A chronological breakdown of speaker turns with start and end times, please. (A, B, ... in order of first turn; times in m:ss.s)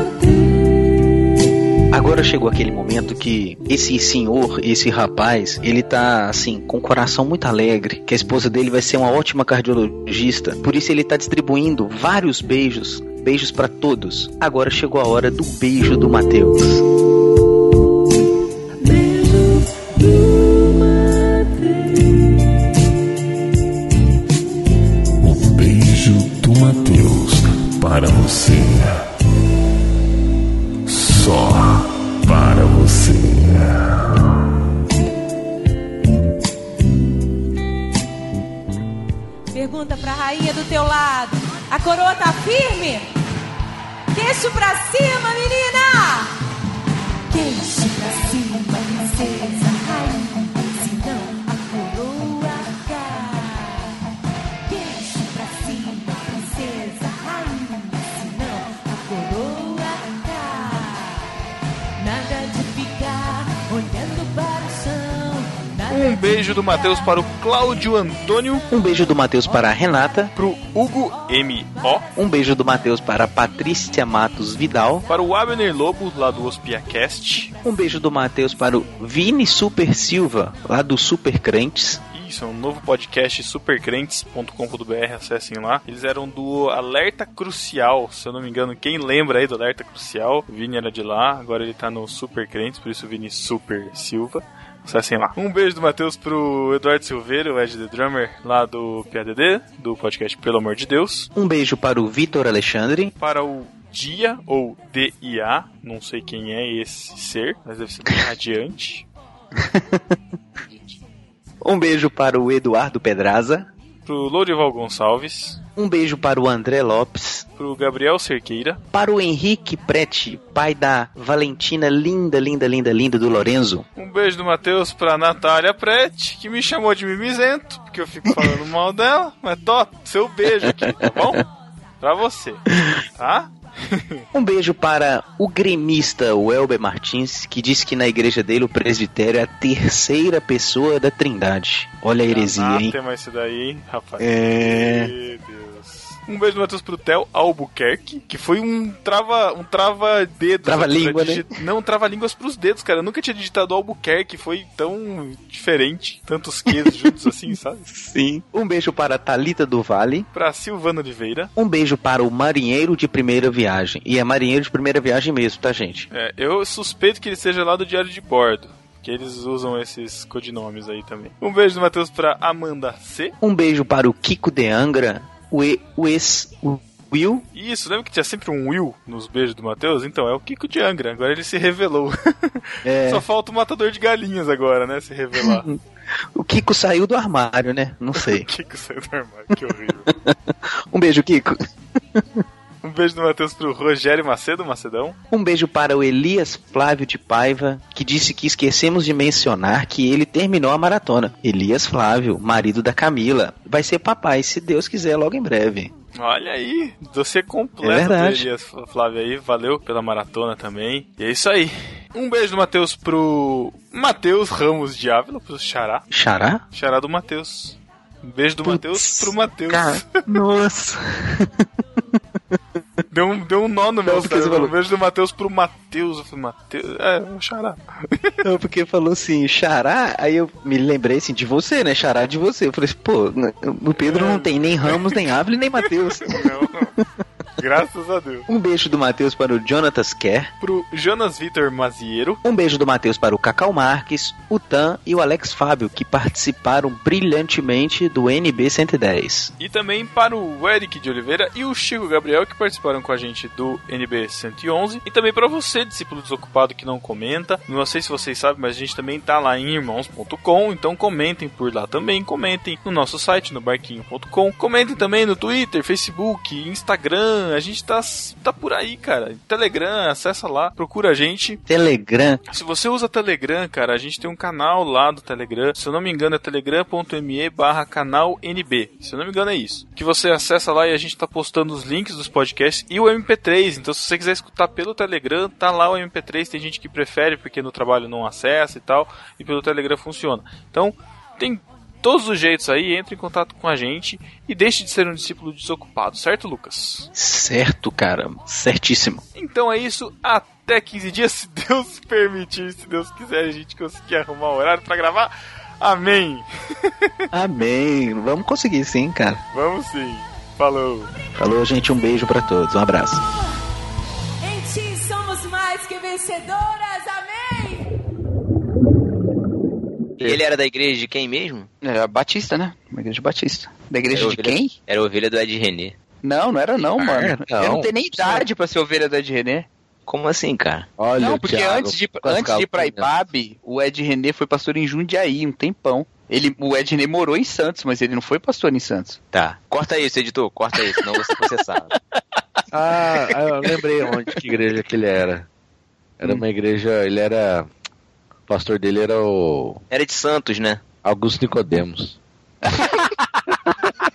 0:01.9-0:16.8 A
0:25.2-0:29.0 B
0:30.8-0:34.0 B
0:39.5-0:43.1 C
0:44.1-0:46.3 C
0:47.3-0:53.9 C
0:54.7-1:01.3 C
1:02.0-1:06.6 C
1:05.9-1:08.6 D
1:08.7-1:10.3 A
1:10.4-1:12.0 D
1:12.2-1:15.0 A
1:15.1-1:17.5 D
1:17.6-1:22.0 A
1:22.1-1:41.3 D
1:41.3-1:43.1 A
1:43.2-1:49.0 D
1:49.6-1:50.2 A
1:50.7-1:51.0 D
1:51.6-1:53.7 A
1:54.0-1:55.6 D
1:55.8-1:57.4 A
1:57.6-1:58.8 D
1:58.9-2:03.8 A
2:04.0-2:11.4 D
2:10.6-2:11.1 A
2:12.0-2:12.6 D
2:13.2-2:14.2 D
2:14.3-2:22.9 A
2:22.2-2:38.1 D
2:24.2-2:25.1 A
2:30.6-2:31.5 A
2:38.0-2:40.3 A
2:40.3-2:41.5 D
2:41.6-2:46.1 A
2:46.1-2:53.4 D
2:53.4-2:57.4 A
2:57.5-3:05.6 D
3:02.8-3:03.2 A
3:05.4-3:05.8 A
3:06.3-3:08.5 A
3:08.2-3:10.1 D
3:09.6-3:11.6 A
3:12.1-3:12.4 A
3:12.8-3:15.2 D
3:15.3-3:25.9 A
3:26.2-3:36.0 D
3:27.8-3:28.5 A
3:36.1-3:36.6 A
3:36.7-3:40.2 D
3:38.6-3:42.6 A
3:43.1-3:48.3 D
3:44.0-3:44.7 A
3:48.4-3:57.0 A
3:54.0-3:55.2 D
3:55.8-3:56.9 D
3:57.6-3:58.5 D
3:58.5-4:00.5 A
4:00.6-4:02.4 D
4:02.4-4:09.5 A
4:09.6-4:31.6 D
4:31.7-4:32.4 A
4:32.5-4:57.1 D
4:57.1-4:59.2 A
4:59.4-5:07.1 D
5:07.3-5:09.4 A
5:09.5-5:11.1 D
5:11.4-5:13.2 A
5:14.4-5:17.9 C
5:20.2-5:21.7 E
5:21.8-5:24.7 F
5:24.1-5:25.9 E
5:26.2-5:29.7 F
5:26.8-5:28.4 G
5:30.1-5:30.9 E
5:31.0-5:33.1 G
5:31.2-5:39.2 F
5:39.3-5:41.9 E
5:42.7-5:45.4 G
5:46.2-5:47.7 G
5:48.5-5:49.8 G
5:49.9-5:50.8 E
5:51.0-5:52.2 G
5:52.6-5:53.1 F